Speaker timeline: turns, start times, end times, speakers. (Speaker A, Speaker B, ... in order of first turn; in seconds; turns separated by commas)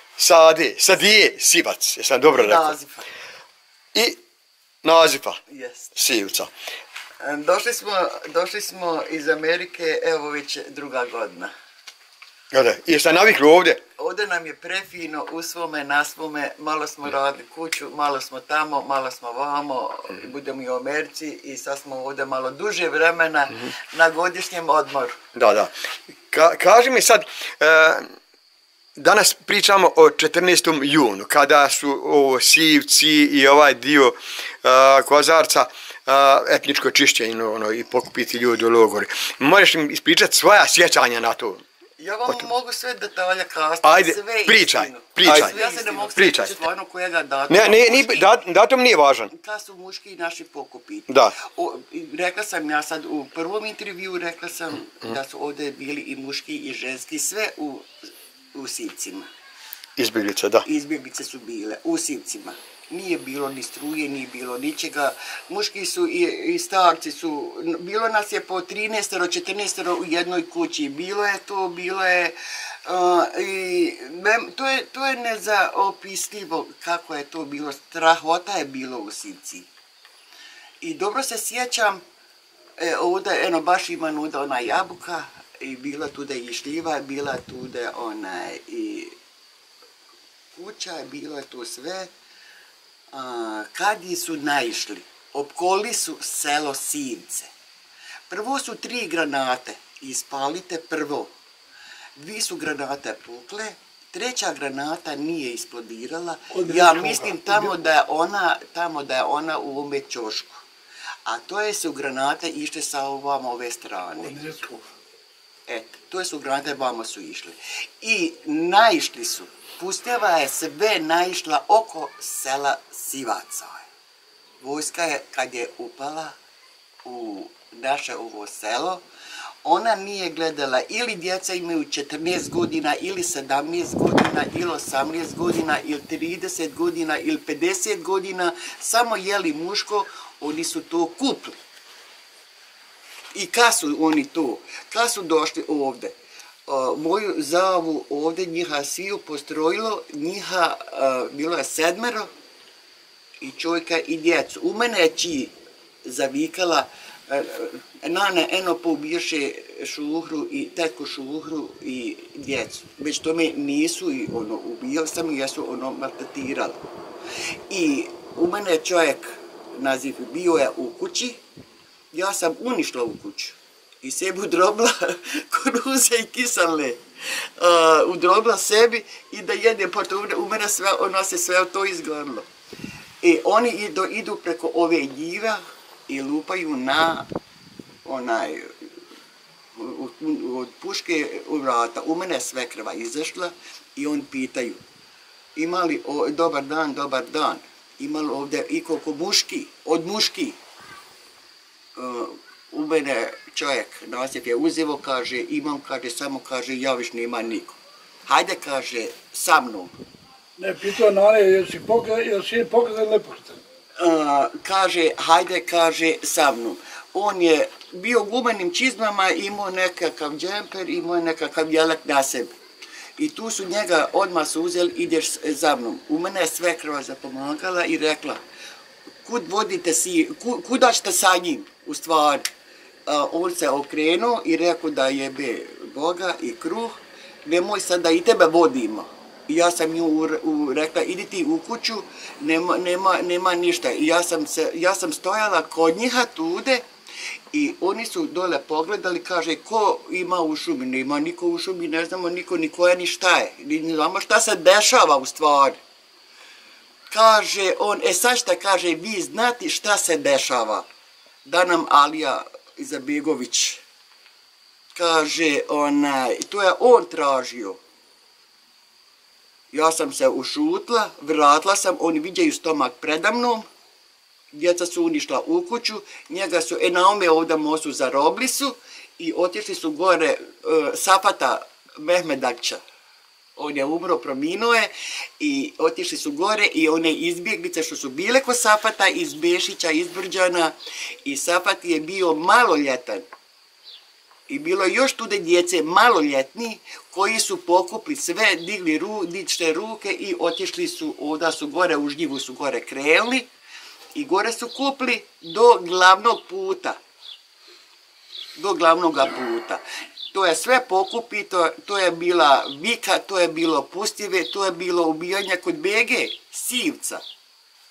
Speaker A: 0.2-2.8, Speaker B: 2.3-3.1, Speaker A: 3.9-4.2, Speaker A: 4.8-5.4, Speaker B: 5.5-5.9, Speaker A: 6.0-6.5, Speaker B: 7.2-11.5, Speaker A: 12.5-13.8, Speaker B: 14.0-25.2, Speaker A: 25.4-25.7, Speaker A: 26.3-28.1, Speaker A: 29.0-41.6, Speaker B: 42.0-48.3, Speaker A: 43.8-45.6, Speaker A: 46.1-46.6, Speaker A: 47.5-49.3, Speaker B: 49.3-57.9, Speaker A: 51.1-51.4, Speaker B: 58.5-59.3, Speaker A: 60.0-60.7, Speaker B: 60.6-79.7, Speaker B: 80.8-82.0, Speaker B: 82.8-89.2, Speaker B: 90.6-92.1, Speaker B: 93.1-97.5, Speaker B: 98.3-101.3, Speaker B: 102.2-110.6, Speaker C: 106.5-107.8, Speaker B: 111.3-114.4, Speaker C: 114.2-114.8, Speaker B: 115.7-123.8, Speaker B: 124.6-126.3, Speaker B: 127.0-129.0, Speaker B: 129.6-141.6, Speaker B: 143.3-146.1, Speaker B: 146.7-152.3, Speaker B: 153.4-155.5, Speaker B: 156.0-166.8, Speaker B: 167.7-171.4, Speaker B: 172.1-182.5, Speaker B: 183.2-187.3, Speaker B: 188.1-188.9, Speaker B: 189.8-194.8, Speaker B: 195.6-200.6, Speaker B: 201.9-209.9, Speaker C: 210.6-213.6, Speaker B: 214.0-222.5, Speaker B: 223.2-228.4, Speaker B: 229.2-232.4, Speaker B: 233.1-246.8, Speaker B: 247.5-255.8, Speaker B: 257.1-260.9, Speaker B: 261.4-263.8, Speaker B: 264.9-267.8, Speaker B: 269.7-273.6, Speaker B: 274.5-282.8, Speaker B: 283.6-293.2, Speaker B: 294.5-303.5, Speaker B: 304.1-307.0, Speaker B: 308.6-309.8, Speaker B: 310.3-317.2